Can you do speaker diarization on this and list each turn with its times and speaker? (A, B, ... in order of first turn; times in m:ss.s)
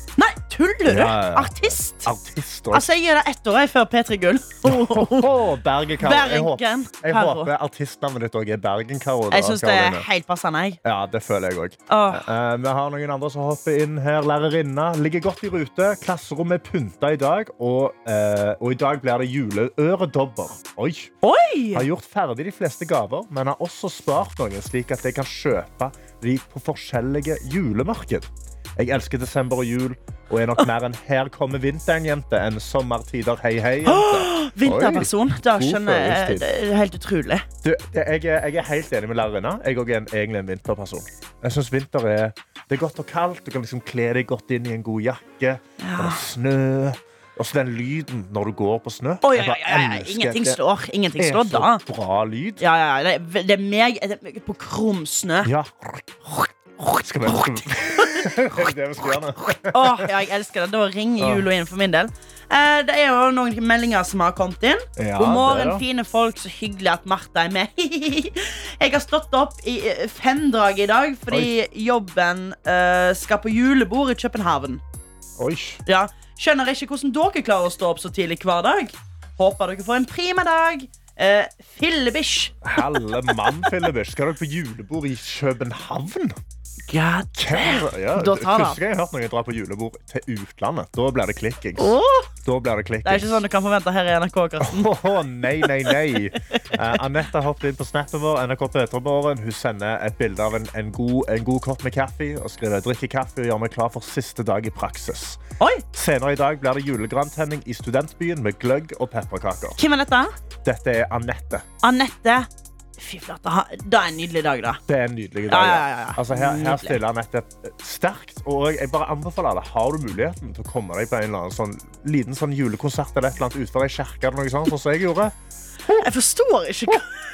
0:00.2-0:02.1 A
0:00.8-0:02.9 B
0:02.7-0:05.3 A
0:04.6-0:10.1 B
0:06.0-0:07.5 A
0:09.3-0:10.8 A
0:10.8-0:21.1 B
0:11.9-0:12.2 A
0:21.2-0:21.9 A
0:21.7-0:36.5 B
0:33.8-0:37.4 A
0:37.6-0:50.6 B
0:45.8-0:46.2 A
0:49.2-0:51.8 A
0:51.2-0:52.6 B
0:52.6-0:55.5 A
0:55.4-1:00.1 B
0:57.2-0:58.6 A
0:59.4-1:14.8 A
1:01.2-1:01.4 B
1:05.0-1:05.8 B
1:15.4-1:15.8 B
1:15.8-1:22.6 A
1:22.6-1:26.4 B
1:26.9-1:28.8 A
1:27.3-1:33.4 B
1:31.8-1:32.3 A
1:33.0-1:34.9 A
1:34.6-1:45.4 B
1:45.9-1:49.8 B
1:49.8-1:50.3 A
1:50.6-1:51.6 B
1:51.8-1:54.8 A
1:54.9-2:06.1 B
1:55.5-1:57.0 A
2:06.0-2:07.1 A